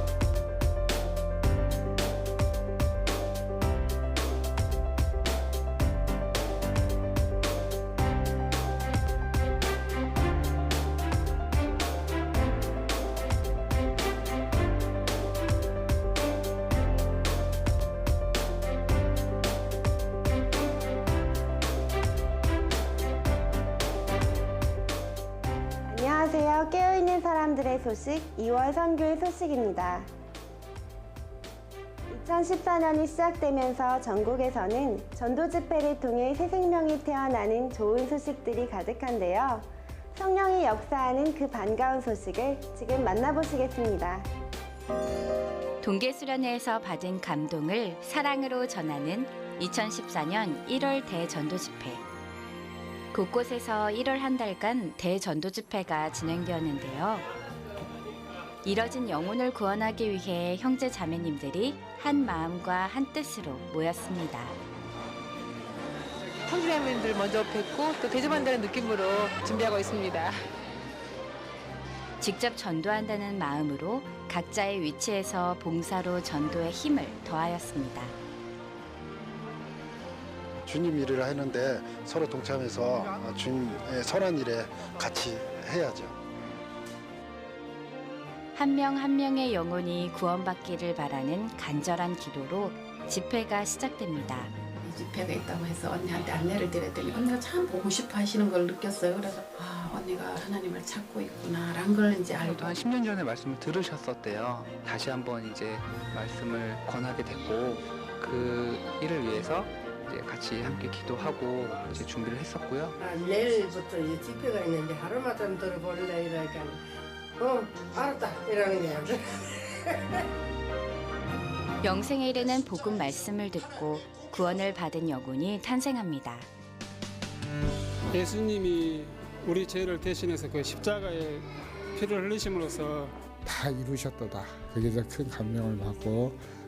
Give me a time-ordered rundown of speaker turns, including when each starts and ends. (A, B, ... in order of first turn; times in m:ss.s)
0:25.9-0:30.1 A
0:32.1-0:44.3 A
0:45.8-0:52.0 B
0:53.1-0:57.3 B
0:58.6-1:04.6 B
1:06.5-1:10.4 C
1:12.2-1:18.2 B
1:20.6-1:26.2 D
1:28.6-1:34.5 B
1:34.8-1:42.8 E
1:42.4-1:53.0 F
1:53.0-1:56.8 G
1:57.4-1:59.6 G
2:01.8-2:06.5 B
2:08.1-2:13.1 H
2:13.4-2:16.4 I